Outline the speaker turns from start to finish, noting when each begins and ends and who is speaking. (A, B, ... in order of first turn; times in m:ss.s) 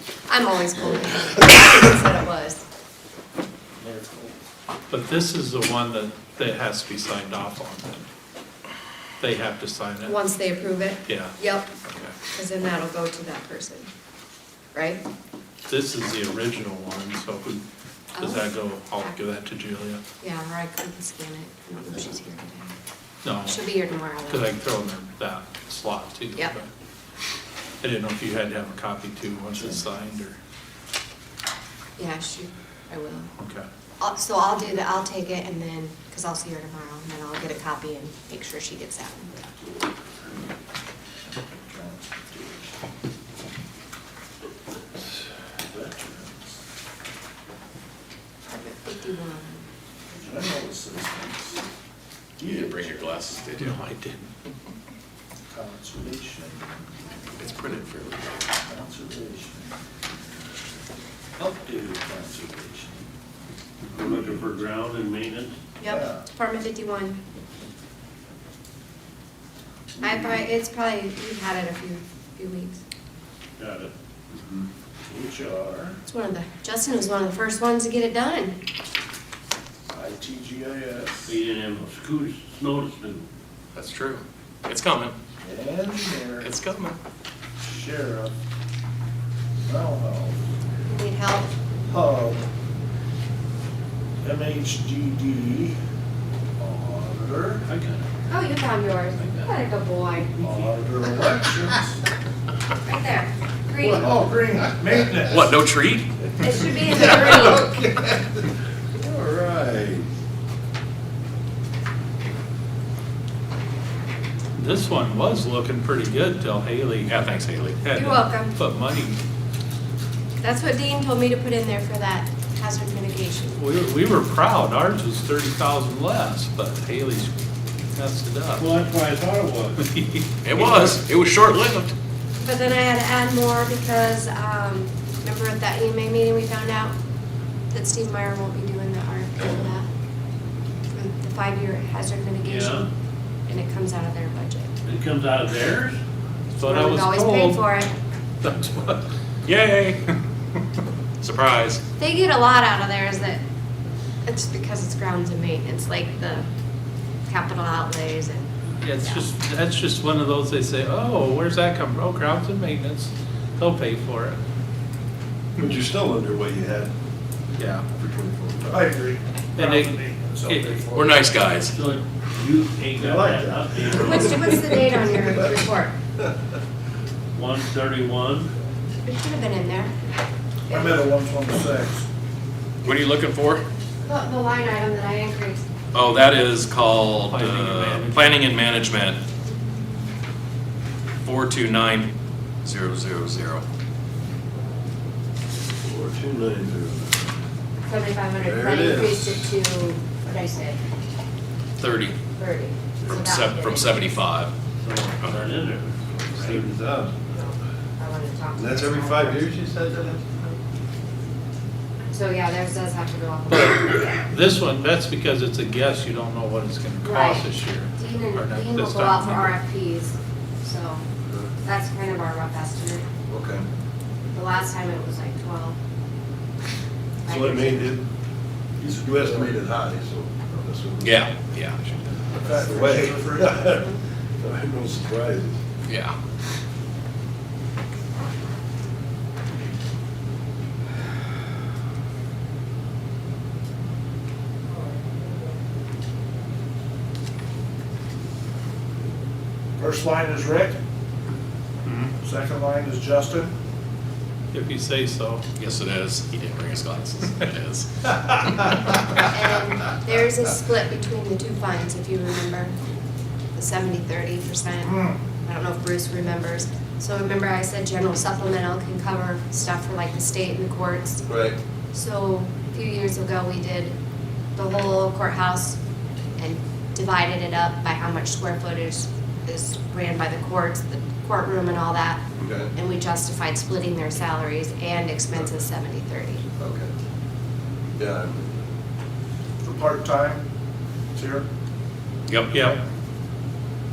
0:00.3-0:02.6 A
0:04.9-0:08.0 B
0:09.2-0:10.2 B
0:10.0-0:11.7 A
0:11.0-0:11.4 B
0:12.3-0:13.9 A
0:14.7-0:15.0 A
0:15.7-0:17.6 B
0:18.1-0:18.4 A
0:18.2-0:20.0 B
0:20.2-0:22.8 A
0:23.2-0:23.6 B
0:23.4-0:24.5 A
0:24.3-0:26.7 B
0:27.8-0:30.4 B
0:32.0-0:33.3 A
0:33.4-0:33.6 B
0:34.0-0:39.3 A
0:41.7-0:42.7 C
0:45.6-0:46.6 C
0:48.5-0:49.6 A
0:50.1-0:51.6 C
0:52.4-0:53.0 C
0:52.4-0:53.8 D
0:53.6-0:54.3 B
0:55.5-0:56.7 C
0:57.4-0:58.4 D
0:58.6-0:59.8 C
1:01.4-1:03.0 C
1:03.9-1:05.6 E
1:05.8-1:07.2 A
1:05.8-1:06.2 C
1:10.0-1:12.8 A
1:10.0-1:10.3 F
1:13.6-1:13.9 E
1:15.1-1:16.0 C
1:16.1-1:18.6 A
1:19.9-1:21.3 C
1:21.2-1:23.3 E
1:23.7-1:25.1 D
1:25.4-1:26.5 C
1:26.4-1:27.0 D
1:27.6-1:28.3 C
1:29.6-1:30.4 C
1:30.8-1:31.5 A
1:31.9-1:32.4 C
1:34.2-1:35.8 C
1:36.6-1:37.7 C
1:37.8-1:38.0 B
1:38.3-1:40.4 A
1:40.4-1:42.0 C
1:42.8-1:44.3 A
1:43.8-1:45.6 C
1:45.3-1:46.1 D
1:46.4-1:47.7 A
1:46.8-1:47.9 C
1:47.0-1:47.4 F
1:48.9-1:50.1 F
1:54.6-1:57.1 B
1:57.1-1:57.8 D
1:57.8-1:59.2 B
1:57.9-1:58.5 A
2:00.4-2:03.6 A
2:03.5-2:07.3 B
2:07.9-2:08.7 B
2:08.6-2:09.8 E
2:09.8-2:10.9 B
2:10.4-2:11.9 D
2:10.6-2:11.0 E
2:12.4-2:16.9 A
2:17.7-2:19.9 A
2:20.9-2:22.9 A
2:22.4-2:22.9 E
2:23.5-2:24.7 A
2:24.8-2:26.0 E
2:26.6-2:27.7 B
2:26.6-2:27.9 A
2:28.4-2:29.0 B
2:29.4-2:30.0 D
2:31.2-2:31.8 D
2:32.0-2:33.4 A
2:34.2-2:36.5 A
2:37.2-2:39.2 A
2:38.8-2:44.4 B
2:45.6-2:46.9 F
2:47.6-2:47.8 B
2:47.9-2:48.8 F
2:48.6-2:51.3 C
2:49.6-2:50.8 B
2:50.9-2:51.7 D
2:51.7-2:54.6 E
2:53.0-2:55.5 F
2:53.9-2:56.0 A
2:57.3-2:58.5 E
2:59.0-2:59.9 A
3:00.7-3:01.0 A
3:00.7-3:02.1 C
3:02.8-3:03.6 D
3:04.0-3:05.6 A
3:05.9-3:09.2 D
3:07.3-3:08.2 B
3:11.2-3:12.1 D
3:12.6-3:13.6 D
3:15.8-3:17.2 F
3:17.8-3:20.8 A
3:18.4-3:19.5 F
3:21.8-3:22.2 D
3:22.3-3:24.0 A
3:23.0-3:24.5 D
3:24.8-3:26.8 E
3:25.2-3:25.5 D
3:26.4-3:27.2 F
3:27.3-3:29.5 A
3:28.5-3:30.3 F
3:32.1-3:34.0 A
3:34.3-3:39.6 B
3:37.0-3:41.0 A
3:41.6-3:43.1 A
3:43.3-3:43.6 F
3:44.3-3:45.8 A
3:47.2-3:47.9 A
3:47.3-3:48.0 F
3:48.8-3:51.3 F
3:51.0-3:51.9 D
3:52.3-3:55.6 F
3:52.3-3:53.6 C
3:55.8-3:56.2 D
4:09.8-4:10.8 C
4:11.8-4:12.1 B
4:12.2-4:13.5 C
4:14.5-4:15.4 B
4:15.6-4:18.7 D
4:19.3-4:22.7 A
4:23.5-4:31.2 A
4:24.8-4:25.2 C
4:31.3-4:31.6 F
4:31.9-4:33.9 A
4:34.6-4:35.8 A
4:36.4-4:46.4 A
4:42.4-4:42.7 F
4:46.5-4:46.9 F
4:48.0-4:48.6 F
4:49.6-4:50.4 C
4:51.1-4:51.4 C
4:52.3-4:52.7 D
4:52.5-4:52.8 B